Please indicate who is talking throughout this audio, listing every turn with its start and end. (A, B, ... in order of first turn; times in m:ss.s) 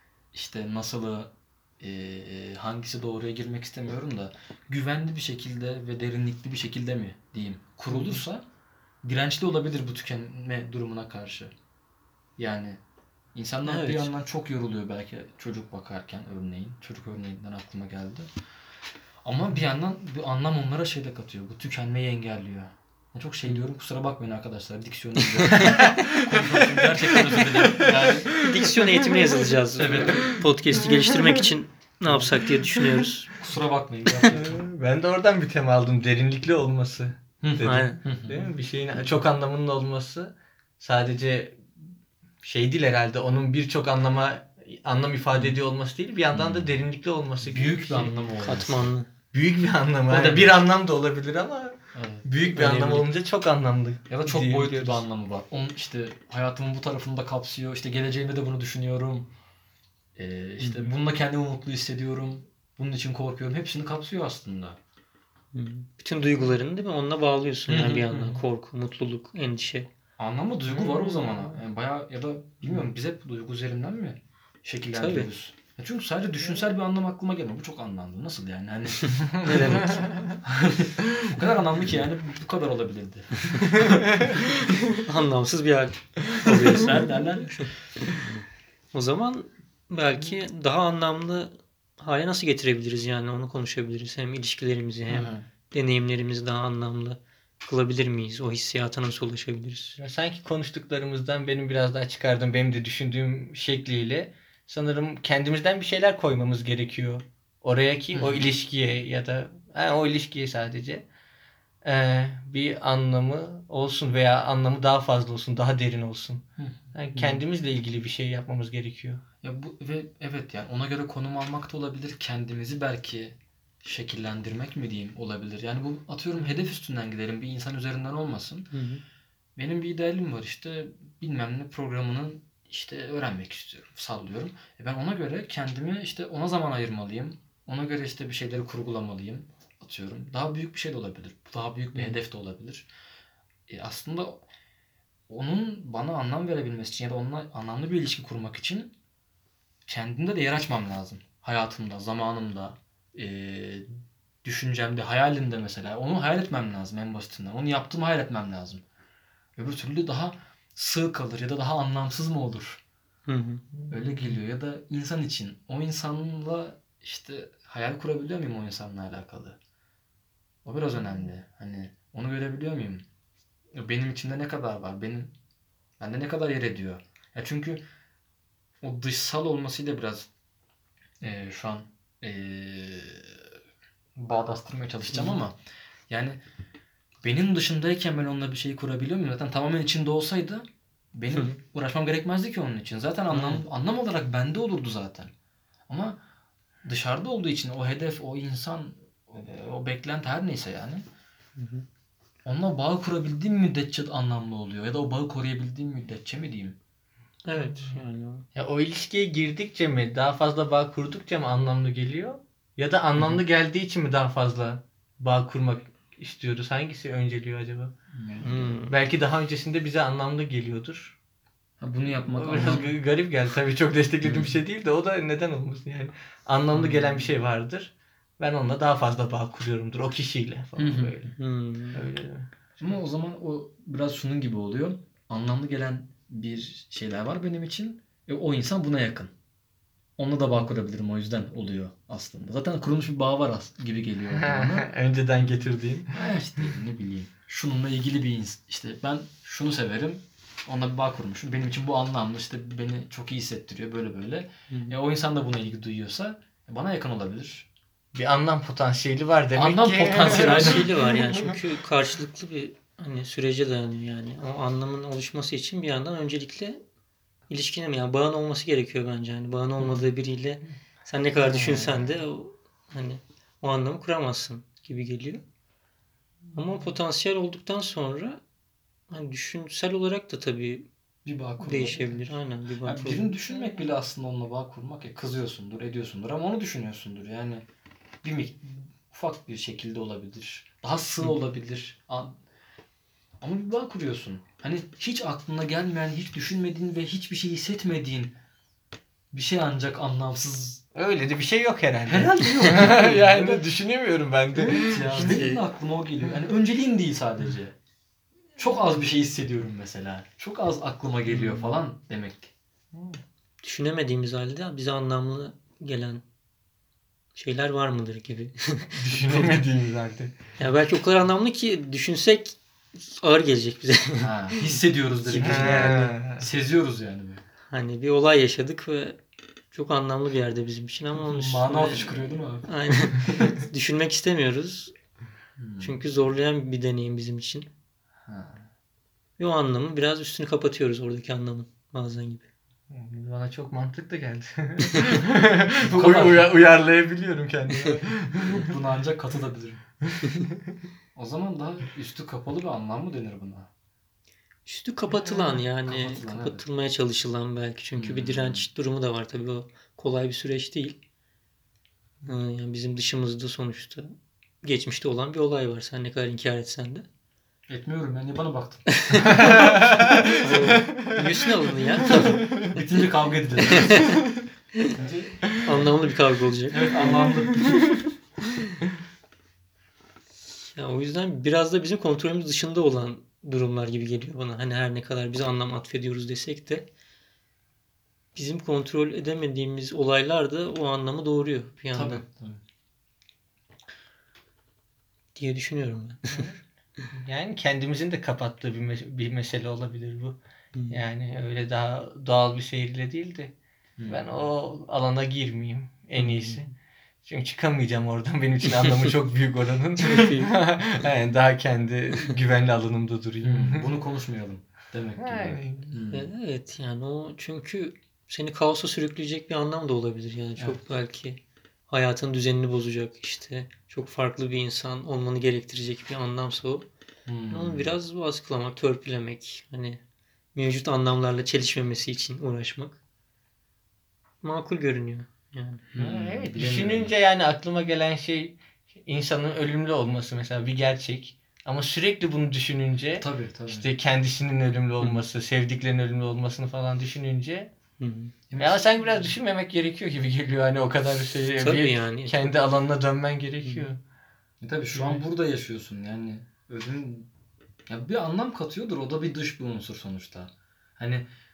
0:00.3-0:08.4 A
0:07.9-0:08.2 B
0:09.0-0:11.5 A
0:12.4-0:12.8 A
0:13.4-0:18.3 A
0:13.6-0:14.1 B
0:19.2-0:28.5 A
0:25.2-0:26.1 B
0:25.8-0:26.7 C
0:27.1-0:33.3 B
0:27.4-0:28.5 C
0:29.8-0:30.4 A
0:30.9-0:31.2 C
0:32.1-0:32.4 A
0:33.4-0:34.6 A
0:34.3-0:41.6 C
0:37.4-0:38.5 A
0:37.6-0:38.0 B
0:42.4-0:48.1 C
0:46.3-0:46.8 A
0:47.4-0:48.9 A
0:48.0-0:49.1 B
0:49.3-0:55.0 C
0:50.1-0:50.6 A
0:51.9-0:52.3 A
0:52.4-0:53.1 B
0:54.1-0:59.3 A
1:00.2-1:04.8 A
1:00.6-1:00.9 B
1:05.5-1:09.9 B
1:07.7-1:08.4 A
1:10.2-1:24.5 A
1:15.0-1:15.3 B
1:19.4-1:20.1 B
1:19.8-1:20.4 C
1:23.8-1:24.3 C
1:24.9-1:28.3 B
1:26.4-1:27.6 A
1:28.9-1:40.0 B
1:35.1-1:35.4 A
1:40.0-1:51.0 C
1:48.1-1:48.5 A
1:51.8-1:59.2 C
1:56.6-1:57.4 A
1:59.4-2:08.7 A
2:08.7-2:09.0 B
2:09.6-2:22.9 A
2:23.7-2:24.4 A
2:25.3-2:28.9 A
2:29.9-2:33.9 A
2:34.4-2:38.8 A
2:39.6-2:42.8 A
2:43.3-2:43.7 B
2:43.9-2:49.6 A
2:50.6-2:53.0 A
2:53.8-2:55.3 A
2:56.0-2:57.8 A
2:58.8-3:00.3 A
3:01.2-3:03.4 A
3:04.2-3:05.6 A
3:05.1-3:05.4 B
3:06.1-3:06.4 A
3:07.2-3:15.3 A
3:11.3-3:11.6 B
3:13.3-3:13.6 B
3:15.9-3:16.2 A
3:16.8-3:21.0 A
3:21.6-3:21.9 B
3:22.4-3:26.8 A
3:27.4-3:28.5 B
3:28.6-3:37.9 C
3:38.1-3:38.8 A
3:38.4-3:38.9 B
3:38.9-3:41.2 C
3:41.8-3:42.9 A
3:42.3-3:51.3 C
3:44.2-3:44.6 A
3:46.8-3:47.3 A
3:50.8-3:51.2 A
3:51.4-3:52.0 B
3:51.9-3:53.0 C
3:52.8-3:59.3 A
4:00.2-4:04.9 A
4:04.3-4:06.3 C
4:06.1-4:17.7 A
4:14.7-4:15.0 B
4:18.1-4:20.9 C
4:19.5-4:20.9 A
4:20.2-4:26.8 B
4:27.5-4:35.4 B
4:31.5-4:32.1 A
4:36.6-4:38.4 B
4:39.1-4:40.9 B
4:41.2-4:47.6 A
4:41.6-4:43.3 B
4:48.2-4:52.4 A
4:53.4-4:58.4 A
4:59.3-5:00.8 A
5:01.0-5:05.4 C
5:02.1-5:03.6 A
5:04.6-5:07.8 A
5:05.2-5:05.6 B
5:08.6-5:12.5 A
5:11.3-5:11.8 B
5:12.9-5:13.2 C
5:13.6-5:16.2 B
5:17.4-5:19.0 B
5:19.0-5:20.4 C
5:20.6-5:24.7 B
5:24.2-5:27.4 A
5:25.2-5:26.2 B
5:25.4-5:26.5 C
5:27.7-5:29.2 B
5:29.7-5:34.9 B
5:31.2-5:33.6 A
5:35.6-5:36.0 A
5:35.8-5:37.7 B
5:38.3-5:38.7 A
5:39.4-5:42.5 B
5:42.9-5:48.8 C
5:45.8-5:46.5 A
5:48.4-5:49.8 A
5:50.1-5:50.7 C
5:51.2-5:53.7 A
5:54.7-6:01.0 B
5:55.2-5:56.6 A
5:58.0-5:58.7 A
6:02.2-6:07.1 B
6:07.7-6:10.4 A
6:09.0-6:09.7 B
6:09.3-6:11.2 C
6:10.3-6:12.5 B
6:12.2-6:12.8 C
6:12.3-6:14.2 A
6:13.7-6:14.2 B
6:14.9-6:15.9 A
6:15.6-6:17.5 B
6:16.7-6:18.0 A
6:17.0-6:17.8 C
6:20.7-6:26.9 B
6:28.4-6:32.2 B
6:31.9-6:32.6 A
6:35.4-6:36.4 B
6:36.3-6:40.4 C
6:40.7-6:41.0 B
6:40.9-6:43.6 C
6:44.0-6:44.3 A
6:44.1-6:46.7 C
6:46.2-6:46.7 B
6:47.2-6:53.9 C
6:50.0-6:50.6 B
6:53.4-6:56.3 A
6:55.2-6:56.0 C
6:56.1-7:06.9 B
7:07.3-7:08.0 A
7:07.5-7:10.0 B
7:10.6-7:13.0 B
7:14.4-7:15.9 B
7:15.9-7:17.1 A
7:16.0-7:27.7 C
7:23.2-7:23.9 A
7:28.0-7:28.3 B
7:28.5-7:29.3 A
7:28.6-7:34.0 C
7:31.6-7:32.5 B
7:33.6-7:33.9 B
7:34.6-7:37.3 A
7:34.9-7:35.2 C
7:37.9-7:41.2 A